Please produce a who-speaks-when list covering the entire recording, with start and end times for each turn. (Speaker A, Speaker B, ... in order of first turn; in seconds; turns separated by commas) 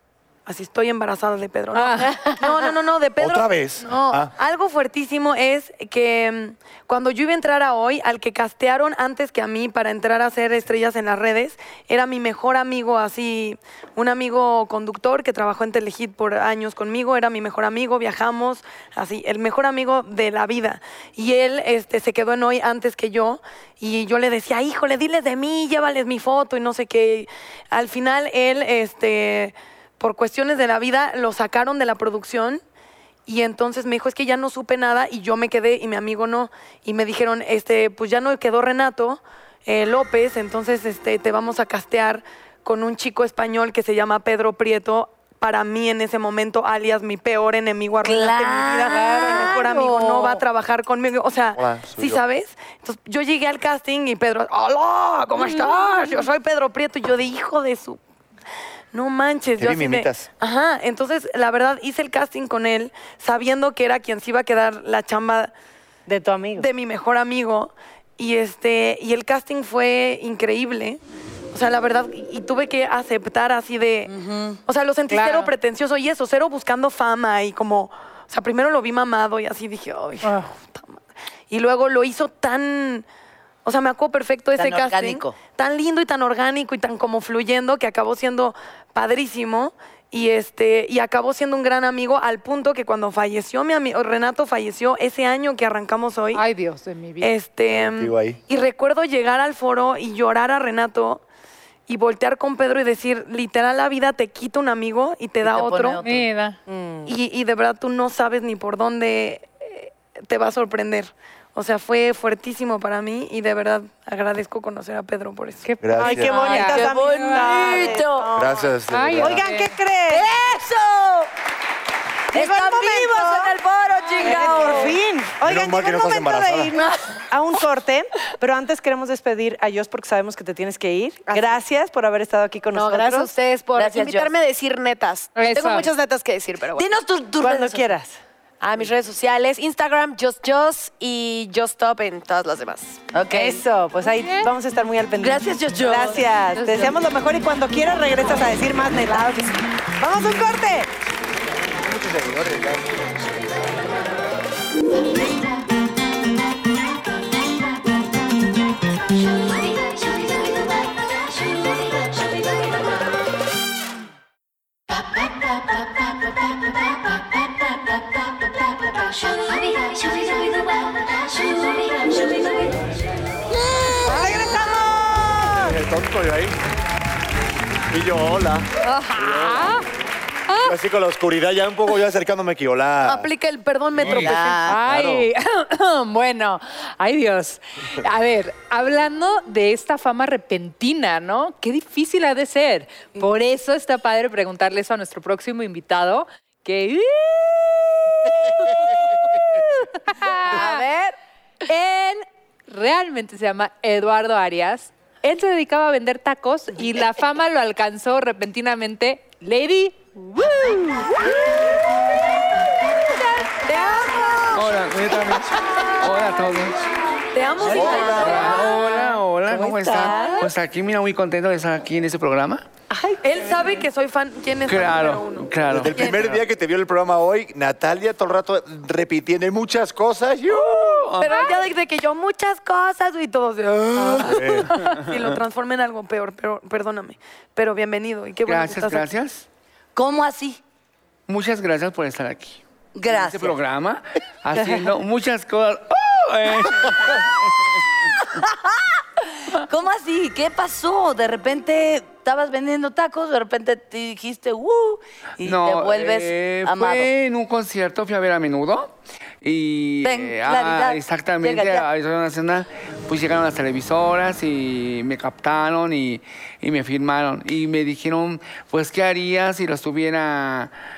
Speaker A: 0.5-32.6, Speaker B: 1.7-2.5, Speaker C: 3.2-4.3, Speaker A: 33.3-58.0, Speaker D: 48.0-50.4, Speaker C: 51.5-52.2, Speaker A: 58.9-65.5, Speaker C: 59.6-60.3, Speaker E: 66.1-66.7, Speaker A: 66.6-71.0, Speaker A: 71.5-74.1, Speaker D: 74.1-74.6, Speaker A: 74.7-83.0, Speaker B: 75.1-75.5, Speaker B: 80.2-80.5, Speaker A: 83.6-96.4, Speaker D: 84.5-85.4, Speaker B: 96.3-97.3, Speaker A: 97.2-101.2, Speaker C: 97.7-98.4, Speaker A: 101.9-106.0, Speaker D: 105.4-106.3, Speaker B: 106.0-106.6, Speaker E: 106.7-107.1, Speaker A: 107.0-115.6, Speaker B: 115.6-118.0, Speaker C: 115.8-116.4, Speaker E: 116.0-120.3, Speaker D: 116.5-118.3, Speaker C: 118.3-119.5, Speaker B: 118.9-119.7, Speaker D: 120.1-121.3, Speaker E: 122.3-123.5, Speaker D: 122.3-125.0, Speaker E: 124.2-133.3, Speaker C: 125.4-126.7, Speaker D: 126.9-127.2, Speaker F: 131.3-131.5, Speaker F: 132.7-136.9, Speaker D: 133.8-134.3, Speaker B: 135.3-135.9, Speaker D: 136.8-137.9, Speaker E: 137.4-138.2, Speaker F: 138.6-143.0, Speaker D: 143.1-143.6, Speaker E: 143.3-150.9, Speaker B: 144.0-144.5, Speaker D: 145.2-146.2, Speaker B: 146.5-146.9, Speaker C: 151.8-152.9, Speaker E: 174.0-175.8, Speaker C: 175.5-176.5, Speaker C: 177.9-179.7, Speaker B: 178.8-179.8, Speaker B: 180.5-180.8, Speaker C: 180.6-183.3, Speaker A: 183.0-184.7, Speaker C: 184.0-185.3, Speaker D: 184.1-184.8, Speaker B: 184.7-200.8, Speaker D: 200.4-201.1, Speaker B: 201.7-211.4, Speaker E: 213.7-214.8, Speaker G: 214.5-216.8, Speaker A: 217.3-218.8, Speaker C: 217.6-218.5, Speaker G: 218.1-222.7, Speaker E: 218.7-220.5, Speaker E: 222.9-223.2, Speaker A: 223.2-226.3, Speaker G: 224.7-226.3, Speaker C: 225.7-231.0, Speaker G: 230.6-231.4, Speaker A: 231.2-239.1, Speaker B: 231.2-231.6, Speaker C: 233.9-234.7, Speaker G: 238.4-239.4, Speaker D: 239.9-240.6, Speaker G: 241.3-247.8, Speaker D: 242.9-243.6, Speaker D: 248.3-257.1, Speaker G: 255.4-270.7, Speaker D: 260.0-261.9